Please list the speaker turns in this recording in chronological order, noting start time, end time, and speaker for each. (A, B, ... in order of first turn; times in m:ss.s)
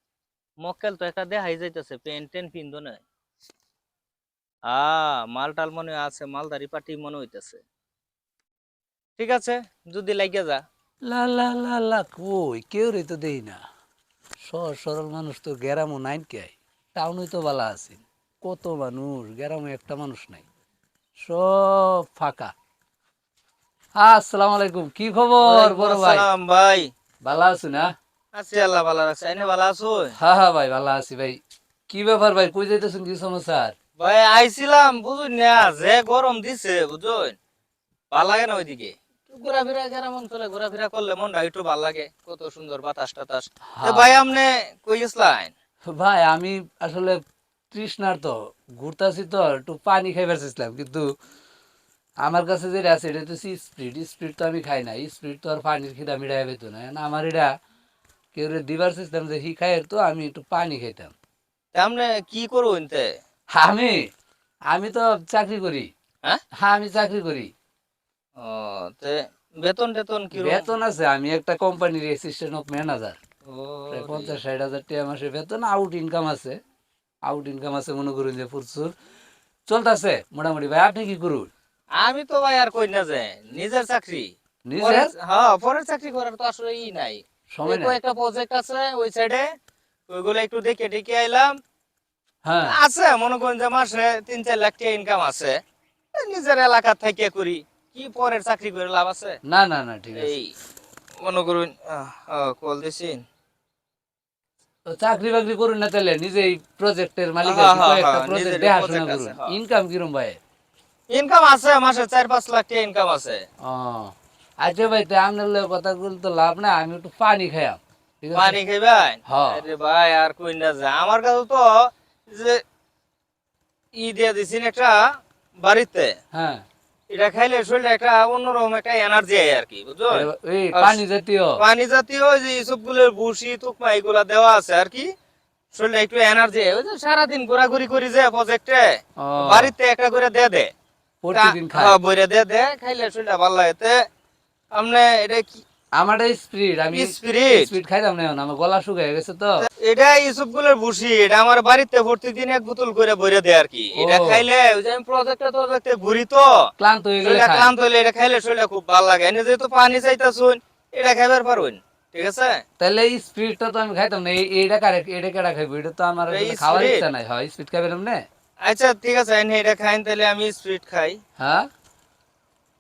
0:00.6-0:03.0 A
0:04.7-0:07.6 A
0:09.2-0:10.6 A
0:11.1-0:13.6 B
0:14.4-0:20.4 B
0:21.2-0:22.5 B
0:24.0-0:26.2 B
0:25.4-0:26.9 A
0:27.2-0:27.9 B
0:28.3-0:30.2 A
0:30.2-0:33.8 B
0:34.0-0:37.4 A
0:38.1-0:45.5 A
0:43.7-0:44.2 B
0:45.9-0:47.2 B
0:47.7-0:51.1 B
0:52.2-0:57.5 B
0:58.3-1:01.1 B
1:01.7-1:03.1 A
1:03.5-1:04.1 B
1:04.7-1:05.9 B
1:06.6-1:07.5 B
1:08.4-1:10.7 A
1:10.3-1:13.2 B
1:13.4-1:14.4 A
1:13.9-1:16.6 B
1:17.3-1:18.9 B
1:19.7-1:21.5 B
1:22.0-1:29.4 A
1:24.7-1:25.1 B
1:27.5-1:28.0 B
1:30.1-1:31.5 A
1:32.4-1:32.8 B
1:32.6-1:35.6 A
1:36.1-1:39.4 A
1:39.5-1:40.4 B
1:40.1-1:40.5 A
1:41.2-1:43.2 A
1:44.9-1:50.4 B
1:47.4-1:49.6 A
1:51.1-1:53.4 A
1:53.6-1:58.6 B
1:58.3-2:02.6 A
1:59.3-1:59.6 B
2:03.9-2:05.0 A
2:05.6-2:06.1 A
2:06.3-2:06.6 B
2:07.1-2:11.0 A
2:10.1-2:11.6 B
2:11.6-2:15.1 A
2:15.7-2:20.7 A
2:19.2-2:19.7 B
2:21.2-2:22.0 B
2:21.3-2:24.0 A
2:24.7-2:25.6 A
2:26.0-2:29.7 B
2:26.9-2:27.7 A
2:29.6-2:36.7 A
2:34.0-2:34.5 B
2:36.8-2:37.7 B
2:37.2-2:42.6 A
2:42.8-2:48.3 B
2:46.2-2:47.0 A
2:48.6-2:51.2 A
2:51.4-2:51.7 B